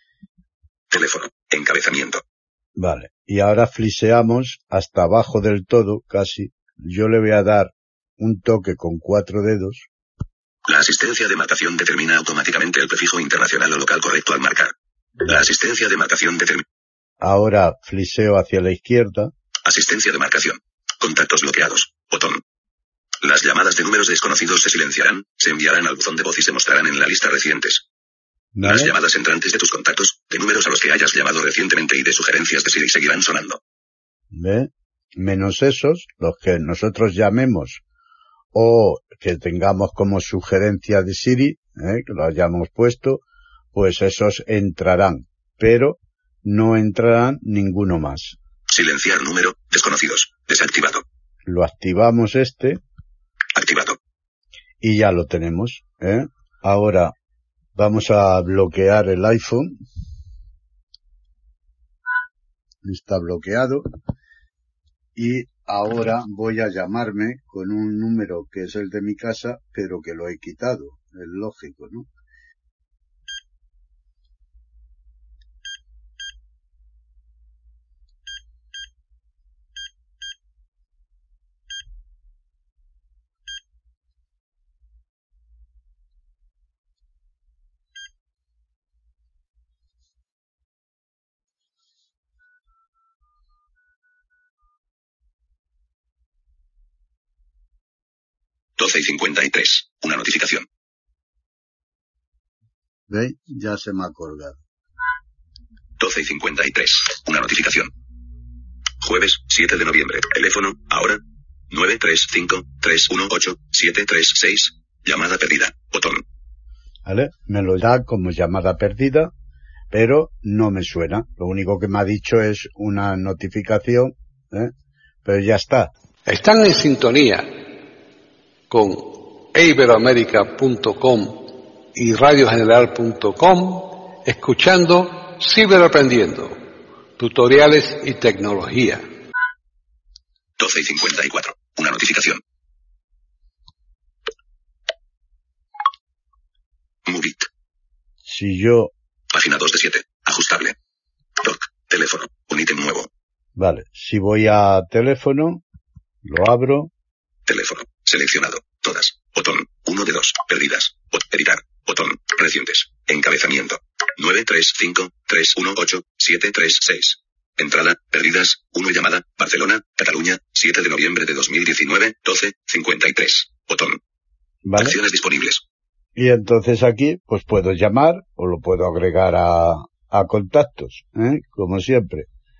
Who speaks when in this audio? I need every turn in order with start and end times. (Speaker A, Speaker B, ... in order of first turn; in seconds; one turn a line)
Speaker A: 0.9-2.2
Speaker B: 2.8-9.9
Speaker A: 10.7-16.6
Speaker B: 17.2-19.3
Speaker A: 19.6-22.4
Speaker A: 23.2-27.9
Speaker B: 28.5-28.9
Speaker A: 28.6-33.6
Speaker B: 34.3-37.8
Speaker B: 38.5-43.2
Speaker B: 43.7-48.4
Speaker A: 48.7-51.0
Speaker B: 51.5-52.8
Speaker A: 53.5-54.0
Speaker B: 54.8-57.1
Speaker B: 57.8-59.7
Speaker B: 62.8-63.9
Speaker B: 65.2-72.1
Speaker A: 98.8-100.7
Speaker B: 103.1-104.6
Speaker A: 106.0-107.9
Speaker A: 109.0-116.2
Speaker B: 117.0-119.3
Speaker B: 119.9-124.7
Speaker B: 125.2-125.9
Speaker C: 126.2-127.5
Speaker C: 128.7-136.6
Speaker C: 137.2-139.0
Speaker A: 140.6-142.4
Speaker A: 147.1-147.5
Speaker B: 148.2-148.9
Speaker A: 149.3-150.8
Speaker A: 151.4-153.1
Speaker B: 153.6-155.6
Speaker B: 156.2-156.9
Speaker A: 157.5-174.0
Speaker B: 174.6-175.0
Speaker A: 174.8-175.6
Speaker B: 176.1-182.3